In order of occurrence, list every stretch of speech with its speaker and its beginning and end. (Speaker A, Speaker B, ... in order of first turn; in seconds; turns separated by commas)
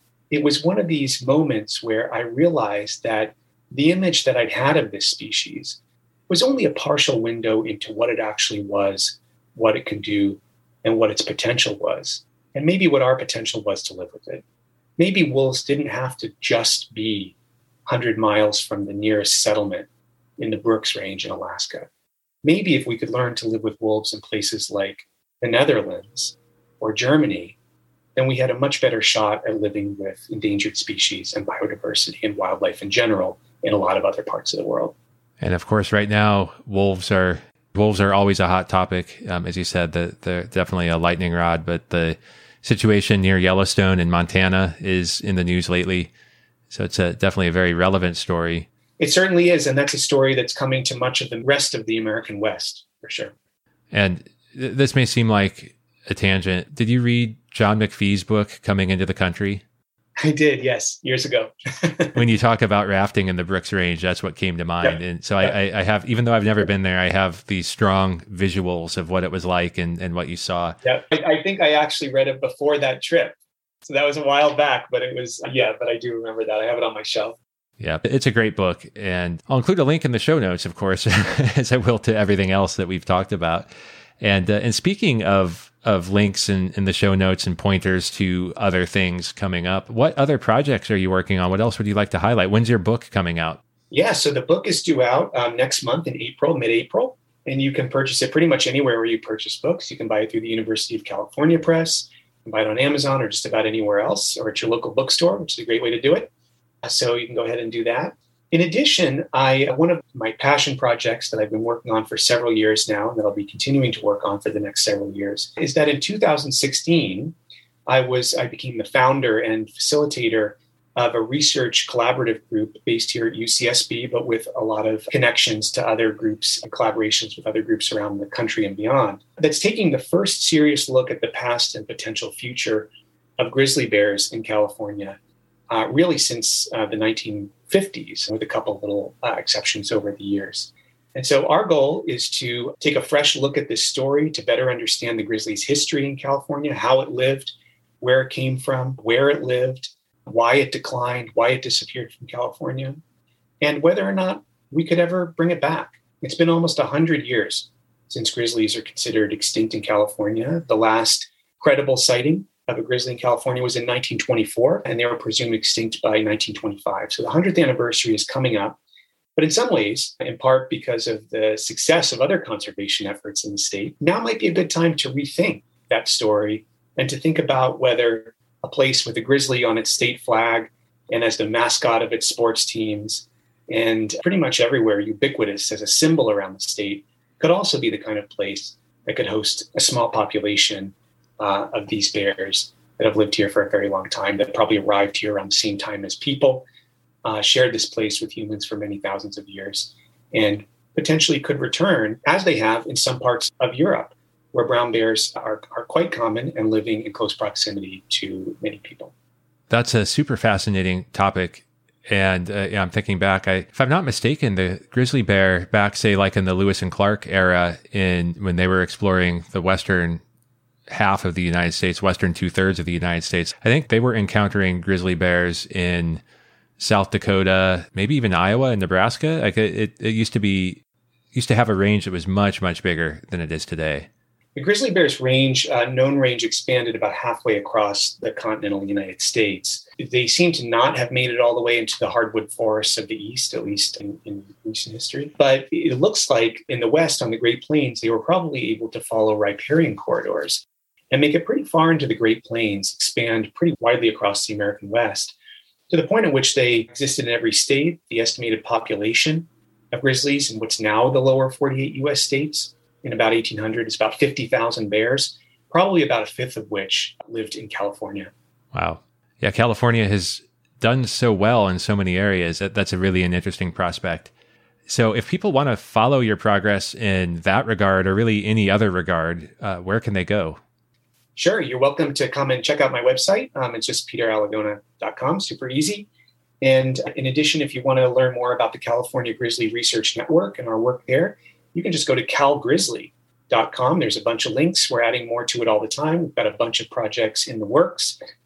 Speaker A: 0.3-14.4, Speaker A: 15.0-17.4, Speaker A: 17.9-19.9, Speaker A: 20.4-21.9, Speaker A: 22.4-27.6, Speaker A: 28.1-34.9, Speaker B: 35.4-46.1, Speaker B: 46.7-48.7, Speaker A: 49.0-53.3, Speaker B: 53.9-59.6, Speaker A: 60.2-62.2, Speaker B: 62.1-70.8, Speaker A: 64.8-65.5, Speaker A: 70.8-77.4, Speaker B: 77.8-83.7, Speaker B: 84.2-93.6, Speaker A: 93.9-106.3, Speaker A: 106.8-117.3, Speaker A: 117.9-135.2, Speaker A: 135.7-153.0, Speaker A: 153.6-168.8, Speaker A: 169.3-196.7, Speaker A: 197.2-209.1, Speaker B: 209.7-220.2, Speaker B: 220.9-226.2, Speaker B: 226.8-230.8, Speaker B: 231.3-234.1, Speaker A: 234.5-255.3, Speaker A: 255.9-268.3, Speaker B: 268.7-274.3, Speaker B: 274.9-280.6, Speaker A: 281.4-286.1, Speaker A: 286.6-298.2